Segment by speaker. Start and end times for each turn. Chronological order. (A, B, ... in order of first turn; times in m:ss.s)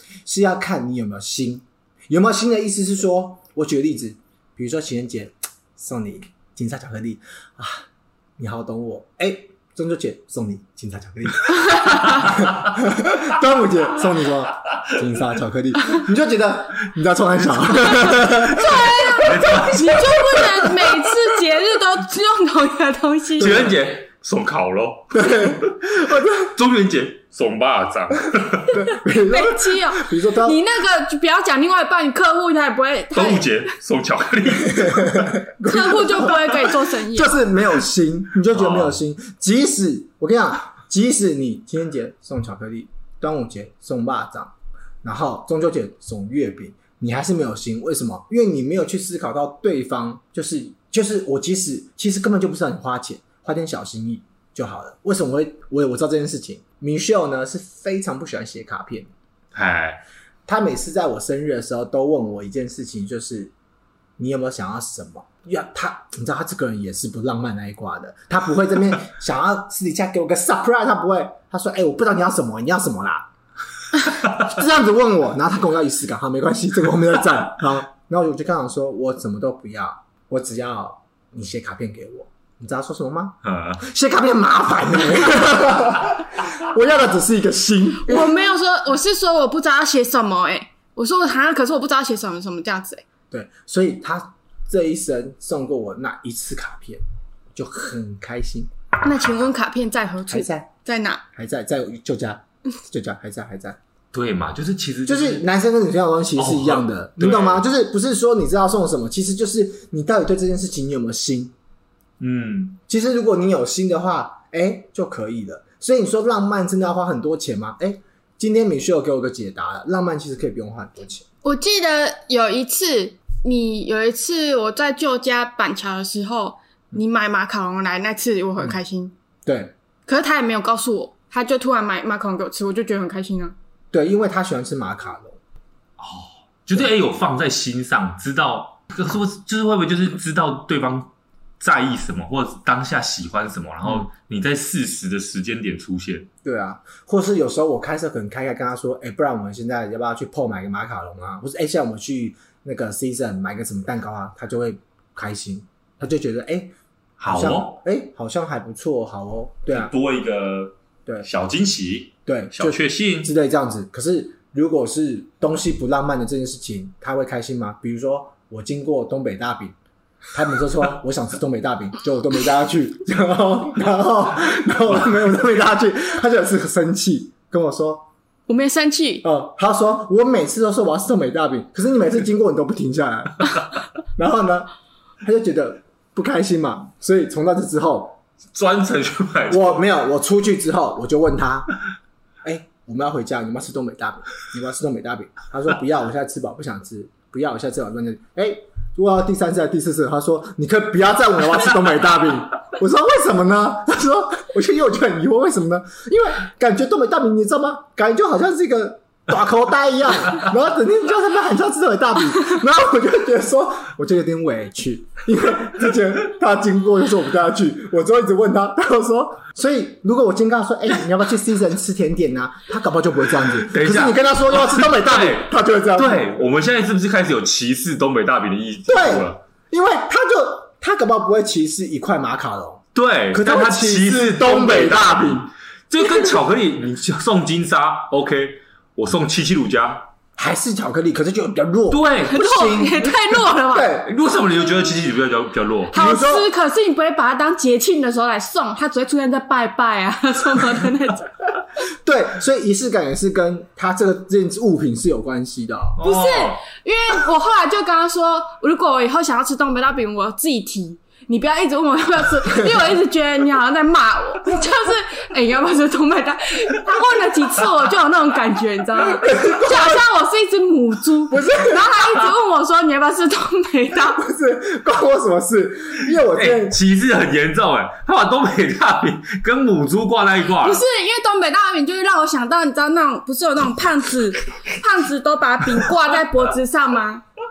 0:00.2-0:07.8 A
0:08.4-0:19.6 A
0:17.9-0:23.6 B
0:19.2-0:20.2 C
0:23.4-0:23.8 A
0:23.4-0:28.8 C
0:25.1-0:26.5 A
0:28.7-0:30.6 A
0:29.3-0:33.7 B
0:33.1-0:35.3 C
0:34.7-0:59.1 A
0:35.6-0:37.4 B
0:38.5-0:39.0 C
0:59.5-1:00.0 C
1:00.5-1:03.5 A
1:04.2-1:13.3 A
1:14.3-1:28.4 A
1:23.4-1:23.8 C
1:28.0-1:33.0 B
1:33.3-1:37.0 A
1:37.5-1:38.7 A
1:39.0-1:41.2 B
1:40.3-1:40.7 A
1:41.3-1:43.8 A
1:44.1-1:45.4 C
1:45.0-1:51.5 A
1:46.4-1:47.6 C
1:52.2-1:52.8 C
1:52.9-2:01.2 A
2:01.4-2:09.1 B
2:09.4-2:09.7 A
2:10.1-2:13.5 B
2:13.9-2:15.4 A
2:16.0-2:26.3 C
2:26.4-2:39.9 A
2:37.2-2:37.8 C
2:39.7-2:43.3 C
2:42.3-2:49.7 A
2:50.3-2:58.1 A
2:58.5-2:59.2 B
2:59.2-3:03.6 A
3:04.1-3:04.7 A
3:05.2-3:08.2 A
3:08.5-3:09.8 C
3:09.5-3:11.7 A
3:12.4-3:46.3 A
3:43.6-3:49.4 C
3:48.9-3:55.5 A
3:52.9-4:00.1 C
4:00.4-4:04.1 A
4:01.9-4:02.4 C
4:02.3-4:04.0 B
4:04.0-4:05.9 C
4:05.9-4:11.3 B
4:05.9-4:06.5 A
4:12.0-4:16.0 A
4:16.0-4:16.6 C
4:16.0-4:34.2 B
4:29.2-4:30.0 A
4:31.3-4:32.0 A
4:34.2-4:36.8 A
4:36.3-4:40.8 C
4:40.6-4:47.2 B